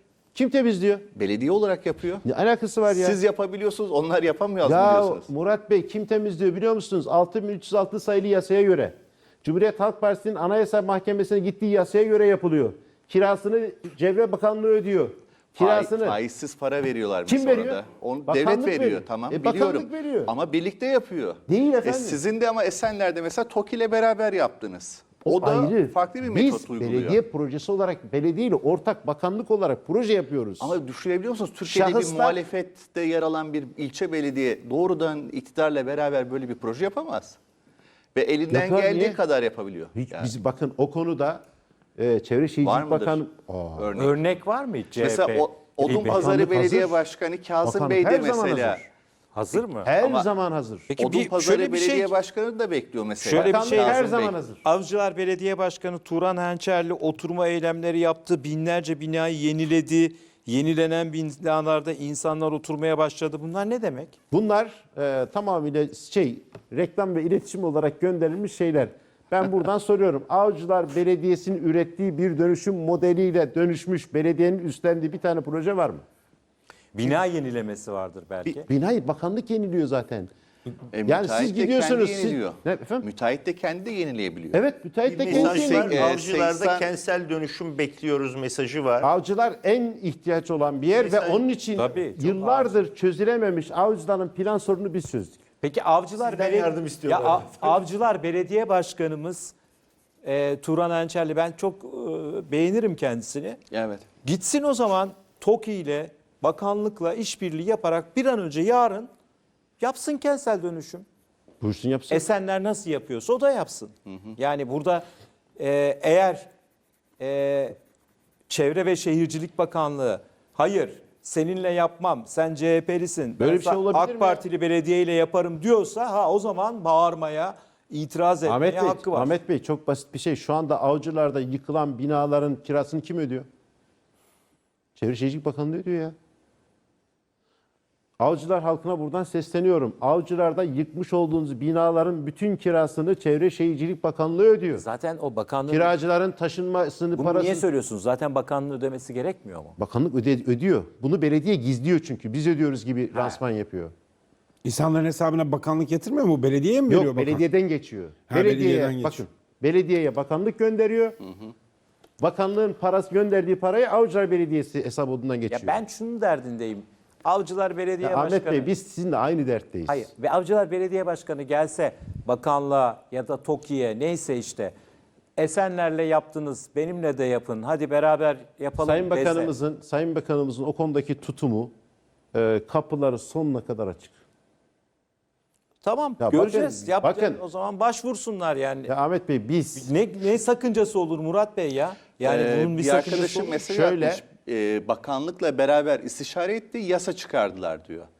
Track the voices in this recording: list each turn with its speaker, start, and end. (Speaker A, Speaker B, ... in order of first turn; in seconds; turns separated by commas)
Speaker A: 0.3-1.1, Speaker B: 1.1-2.2, Speaker A: 2.2-3.2, Speaker B: 2.9-5.3, Speaker A: 4.6-16.2, Speaker B: 15.5-27.2, Speaker A: 17.3-20.3, Speaker A: 21.5-22.2, Speaker A: 25.2-30.7, Speaker B: 30.6-37.4, Speaker A: 31.6-32.4, Speaker B: 38.1-40.3, Speaker A: 38.5-39.2, Speaker A: 39.9-41.4, Speaker A: 42.0-43.9, Speaker B: 42.6-43.2, Speaker B: 43.8-44.1, Speaker C: 44.0-46.4, Speaker B: 45.0-48.9, Speaker A: 45.9-47.0, Speaker A: 47.6-48.9, Speaker C: 49.3-49.9, Speaker A: 49.8-50.9, Speaker B: 50.0-50.2, Speaker C: 50.9-52.1, Speaker B: 51.0-54.4, Speaker C: 53.2-54.0, Speaker A: 53.3-54.6, Speaker C: 54.6-64.1, Speaker A: 64.3-76.0, Speaker C: 76.9-78.7, Speaker A: 78.5-80.3, Speaker B: 80.9-84.6, Speaker A: 81.0-83.0, Speaker A: 84.5-86.1, Speaker D: 85.0-89.1, Speaker B: 85.2-86.9, Speaker A: 89.0-95.4, Speaker D: 90.9-91.4, Speaker C: 91.8-92.8, Speaker C: 95.6-99.5, Speaker D: 96.2-97.8, Speaker C: 100.2-103.6, Speaker B: 103.7-104.0, Speaker C: 104.2-109.1, Speaker C: 109.8-111.0, Speaker A: 111.6-112.3, Speaker C: 112.1-115.0, Speaker B: 114.1-114.3, Speaker C: 115.6-116.5, Speaker C: 117.2-117.8, Speaker C: 118.5-129.3, Speaker A: 123.4-124.4, Speaker A: 128.4-133.4, Speaker A: 135.0-136.1, Speaker A: 138.2-144.8, Speaker C: 144.7-145.9, Speaker A: 145.7-147.7, Speaker C: 147.2-149.8, Speaker A: 149.8-153.9, Speaker C: 153.1-153.4, Speaker E: 154.6-157.4, Speaker A: 156.9-161.2, Speaker E: 158.3-159.2, Speaker A: 162.2-165.8, Speaker C: 165.5-168.7, Speaker A: 168.0-170.1, Speaker C: 169.9-174.7, Speaker C: 175.4-179.5, Speaker A: 178.8-181.7, Speaker A: 182.3-184.2, Speaker C: 185.8-188.9, Speaker A: 186.2-187.4, Speaker A: 188.9-189.9, Speaker C: 189.8-193.6, Speaker B: 192.2-198.1, Speaker A: 193.1-194.2